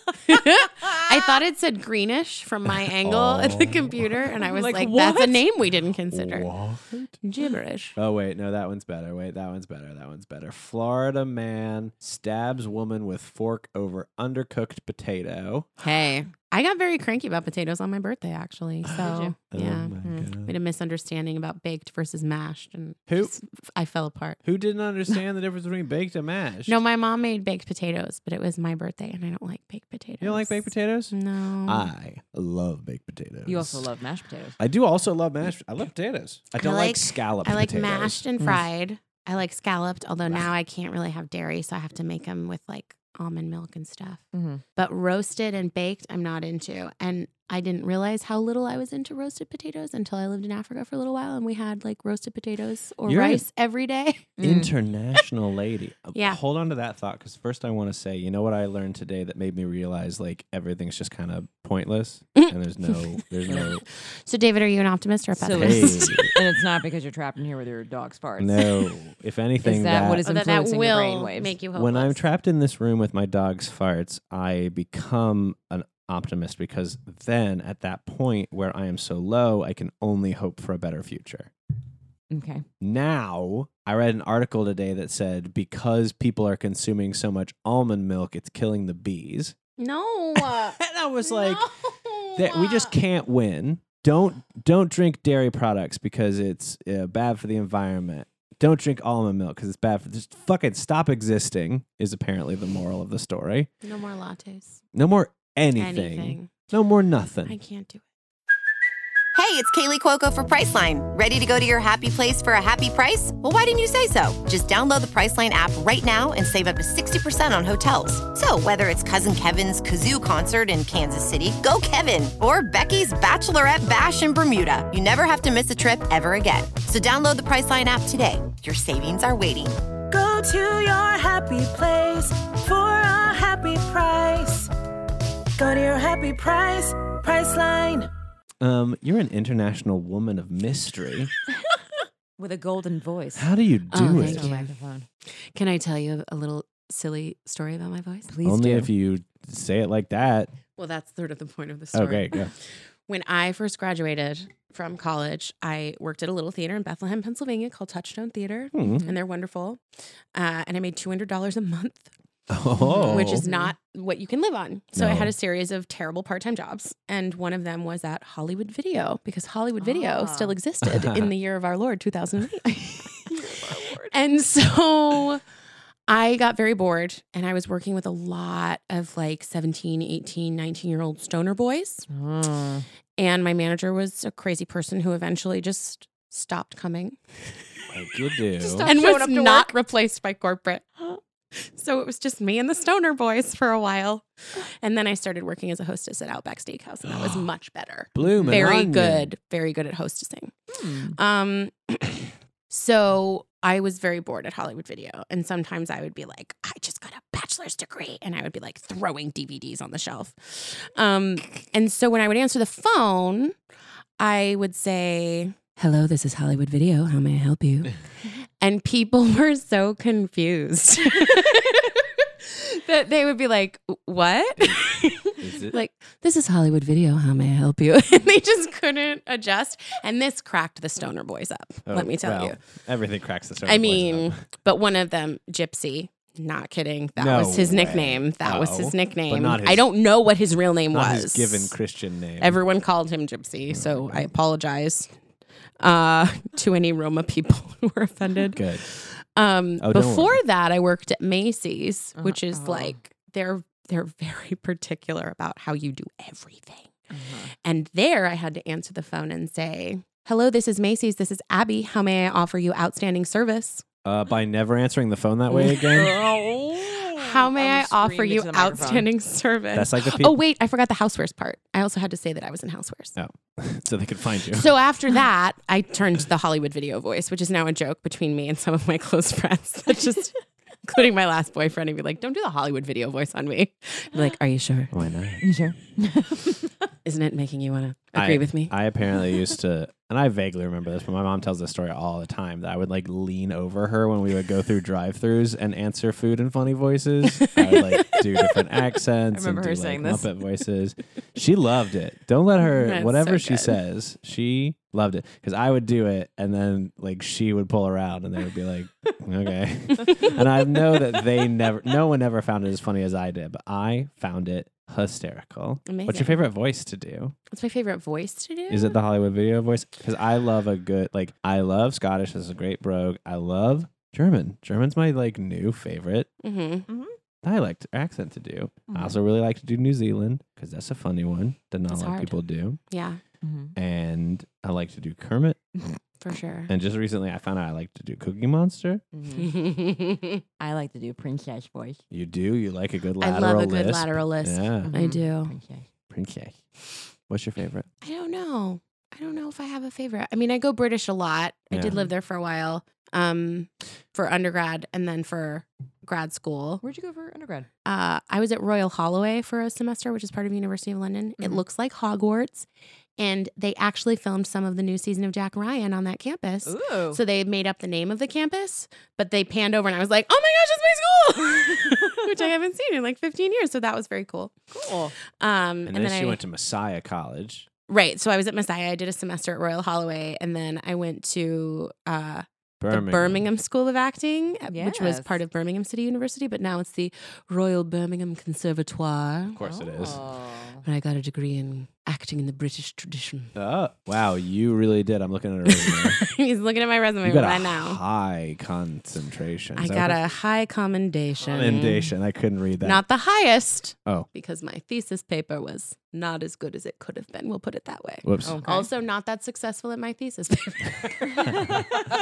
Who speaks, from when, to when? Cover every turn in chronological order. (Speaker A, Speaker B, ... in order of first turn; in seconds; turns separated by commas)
Speaker A: 0.3-6.5, Speaker B: 2.9-4.1, Speaker C: 4.4-5.4, Speaker B: 6.1-7.2, Speaker A: 7.2-8.0, Speaker B: 8.0-15.7, Speaker A: 15.8-24.4, Speaker C: 19.0-19.3, Speaker B: 19.5-20.5, Speaker C: 20.0-20.3, Speaker B: 23.1-23.3, Speaker B: 24.4-26.8, Speaker A: 26.6-31.9, Speaker B: 30.2-31.1, Speaker B: 31.6-33.9, Speaker C: 33.5-34.6, Speaker B: 34.6-38.2, Speaker A: 36.6-44.2, Speaker C: 44.3-44.6, Speaker A: 44.8-54.3, Speaker B: 53.0-53.4, Speaker C: 54.4-54.7, Speaker B: 54.4-63.8, Speaker A: 56.1-56.4, Speaker A: 63.6-66.3, Speaker C: 65.4-68.7, Speaker B: 65.5-66.3, Speaker B: 68.4-70.2, Speaker C: 69.6-71.6, Speaker A: 70.2-72.2, Speaker B: 71.7-81.5, Speaker C: 82.3-82.6, Speaker B: 82.8-89.5, Speaker A: 89.8-92.9, Speaker B: 90.3-91.7, Speaker B: 92.3-103.7, Speaker A: 103.8-104.8, Speaker B: 104.9-107.5, Speaker A: 105.8-106.5, Speaker A: 107.5-108.0, Speaker D: 109.3-129.8, Speaker E: 130.1-134.7, Speaker E: 135.6-138.1, Speaker B: 138.6-141.3, Speaker C: 142.4-145.1, Speaker B: 143.3-144.5, Speaker A: 143.9-144.7, Speaker A: 145.5-148.3, Speaker C: 148.3-148.9, Speaker B: 148.4-150.5, Speaker A: 150.8-152.6, Speaker B: 151.9-152.5, Speaker A: 153.1-159.8, Speaker B: 158.7-159.1, Speaker A: 160.3-162.1, Speaker B: 162.5-163.4, Speaker C: 162.8-163.7, Speaker A: 163.0-175.4, Speaker B: 164.9-165.3, Speaker C: 169.8-170.6, Speaker B: 170.8-171.3, Speaker C: 173.4-174.1, Speaker A: 176.1-182.1, Speaker C: 182.1-182.8, Speaker A: 183.2-187.2, Speaker B: 187.9-188.9, Speaker C: 188.6-189.7, Speaker A: 188.8-200.5, Speaker B: 197.1-197.4, Speaker B: 198.1-199.3, Speaker C: 198.2-198.7, Speaker C: 200.7-201.2, Speaker A: 201.1-213.5, Speaker A: 214.2-217.9, Speaker A: 218.6-232.6, Speaker B: 225.4-225.8, Speaker B: 231.9-234.4, Speaker A: 233.6-241.7, Speaker B: 237.2-239.8, Speaker B: 240.9-242.6, Speaker A: 242.4-245.1, Speaker B: 243.7-244.2, Speaker A: 245.8-256.9, Speaker B: 248.5-248.8, Speaker B: 249.8-250.4, Speaker C: 252.2-253.0, Speaker C: 257.1-257.5, Speaker A: 257.6-263.8, Speaker B: 264.0-266.2, Speaker C: 265.5-269.1, Speaker A: 267.1-273.1, Speaker B: 269.7-270.4, Speaker B: 273.1-274.7, Speaker A: 274.5-284.9, Speaker B: 284.9-285.5, Speaker C: 285.4-286.7, Speaker A: 287.0-288.7, Speaker B: 288.1-317.3, Speaker A: 297.4-298.2, Speaker C: 299.3-300.3, Speaker A: 302.6-303.8, Speaker A: 315.9-316.4, Speaker A: 317.5-319.0, Speaker B: 318.7-326.3, Speaker A: 326.4-326.9, Speaker C: 326.9-327.1, Speaker B: 327.4-332.8, Speaker C: 328.9-329.2, Speaker A: 331.9-332.4, Speaker A: 332.9-333.2, Speaker C: 333.4-333.7, Speaker B: 333.7-335.7, Speaker A: 336.2-336.7, Speaker B: 336.7-339.0, Speaker C: 339.1-339.5, Speaker A: 339.3-340.4, Speaker C: 340.6-342.0, Speaker B: 342.1-344.9, Speaker A: 343.2-345.5, Speaker C: 344.9-345.8, Speaker B: 346.1-346.6, Speaker B: 347.3-347.9, Speaker A: 348.0-356.8, Speaker C: 356.8-357.7, Speaker A: 357.8-362.7, Speaker A: 363.2-374.5, Speaker C: 366.6-367.2, Speaker C: 374.7-375.1, Speaker A: 375.3-376.4, Speaker B: 375.9-377.7, Speaker A: 377.9-389.6, Speaker B: 382.8-383.4, Speaker C: 384.7-385.4, Speaker B: 389.5-390.2, Speaker C: 389.6-390.8, Speaker A: 390.8-393.5, Speaker B: 393.5-396.2, Speaker A: 395.7-398.0, Speaker B: 397.2-400.2, Speaker A: 399.8-402.1, Speaker B: 401.4-403.0, Speaker A: 402.8-411.8, Speaker B: 408.2-408.6, Speaker C: 408.4-408.9, Speaker B: 411.5-411.8